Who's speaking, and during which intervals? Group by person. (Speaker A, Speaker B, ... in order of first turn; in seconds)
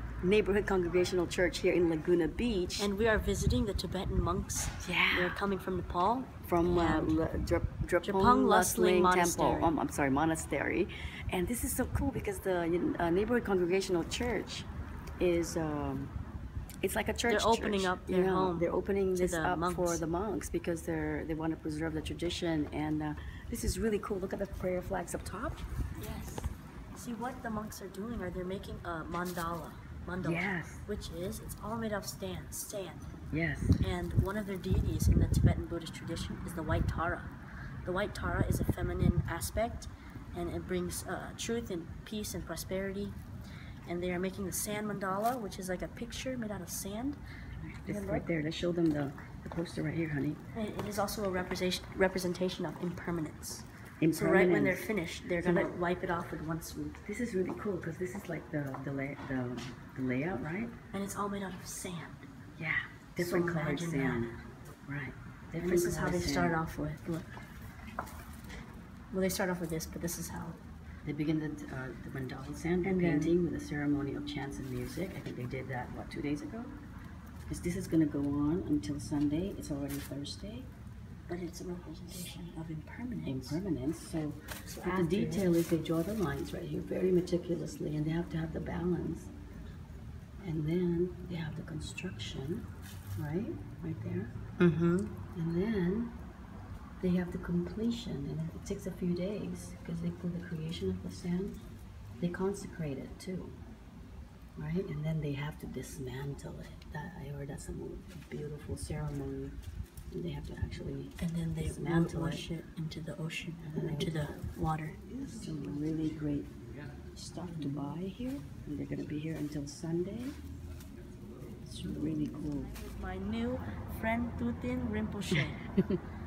Speaker A: 0.2-2.9, 4.8-5.4, 6.5-14.7, 15.2-16.1, 16.8-25.6, 30.2-30.8, 33.3-33.8, 47.6-50.4, 54.0-54.9, 55.4-55.7, 57.0-60.7, 62.6-64.3, 64.9-66.6, 71.0-76.8, 77.5-80.7, 83.3-89.3, 90.4-92.7, 93.2-94.3, 95.3-96.2, 97.0-101.6, 102.2-103.6, 104.6-109.6, 110.1-112.5, 113.7-114.3, 115.4-116.5, 117.2-120.4, 121.8-122.7, 125.3-126.0
Speaker B: 2.8-7.2, 8.0-9.7, 17.3-20.0, 26.0-33.0, 33.8-37.3, 37.8-43.2, 43.9-47.2, 47.8-48.4, 50.5-57.0, 60.9-62.3, 63.2-64.3, 65.6-67.3, 69.1-70.6, 72.8-73.3, 81.3-83.6, 84.7-85.5, 94.6-95.1, 111.2-115.0, 121.7-125.6